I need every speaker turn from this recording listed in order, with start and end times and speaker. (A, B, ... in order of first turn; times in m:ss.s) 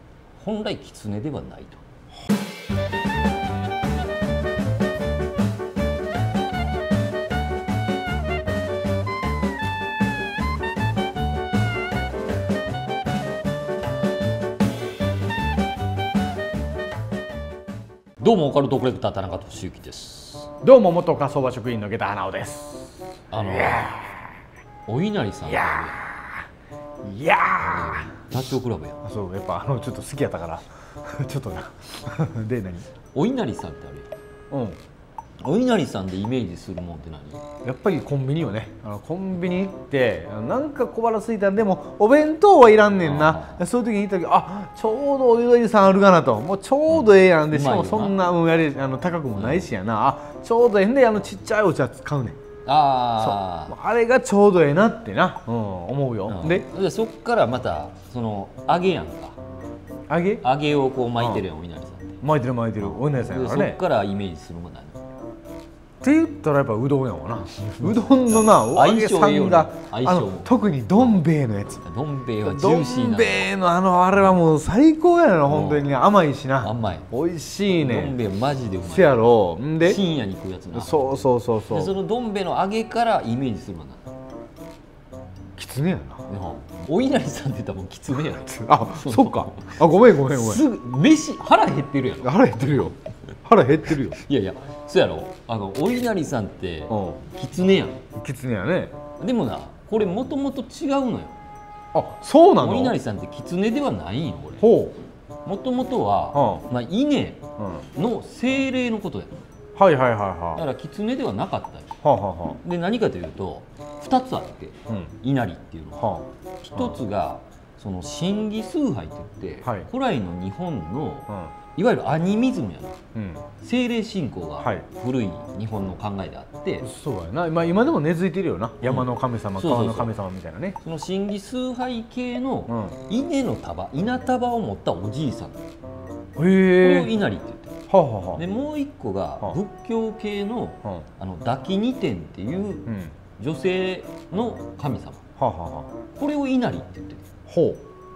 0:00.4-0:01.8 A
0:18.2-0:20.5 A
0:20.6-0:24.3 B
0:23.3-0:24.0 A
0:24.9-0:26.0 A
0:25.4-0:26.5 B
0:27.0-0:28.3 B
0:27.6-0:29.0 A
0:29.0-0:32.9 B
0:33.1-0:34.1 A
0:34.5-0:34.8 B
0:35.4-0:37.4 A
0:37.6-0:52.4 B
0:43.0-0:43.6 A
0:46.9-0:48.2 A
0:49.3-0:49.7 A
0:52.7-0:53.8 A
0:53.2-0:56.7 B
0:56.3-0:59.4 A
1:00.1-1:00.4 B
1:00.4-1:02.2 A
1:01.2-1:01.4 B
1:02.2-1:03.8 B
1:02.8-1:05.0 A
1:06.0-1:11.8 B
1:07.8-1:11.2 A
1:11.8-1:13.5 A
1:12.4-1:18.2 B
1:15.5-1:15.9 A
1:16.6-1:17.1 A
1:17.8-1:19.3 A
1:18.8-1:20.0 B
1:19.8-1:24.1 A
1:20.7-1:21.9 B
1:25.6-1:26.3 B
1:26.3-1:32.4 A
1:28.2-1:30.6 B
1:32.2-1:34.2 B
1:34.2-1:38.0 A
1:36.9-1:37.2 B
1:38.2-1:39.0 B
1:39.2-1:41.4 A
1:41.9-1:43.0 B
1:42.6-1:44.6 A
1:44.6-1:45.0 B
1:45.4-1:49.4 A
1:46.3-1:46.6 B
1:47.6-1:47.9 B
1:49.8-1:50.6 B
1:50.5-1:51.9 A
1:52.0-1:52.6 B
1:52.6-2:03.0 A
1:56.0-1:57.0 B
1:59.6-1:59.9 B
2:03.2-2:03.4 B
2:03.6-2:06.9 A
2:04.6-2:04.9 B
2:06.8-2:10.8 B
2:08.8-2:10.1 A
2:10.8-2:15.6 A
2:12.7-2:13.0 B
2:16.4-2:17.1 B
2:16.8-2:17.8 A
2:17.9-2:18.4 B
2:18.4-2:25.2 A
2:22.9-2:23.1 B
2:25.4-2:25.9 B
2:26.1-2:27.2 A
2:27.5-2:27.8 B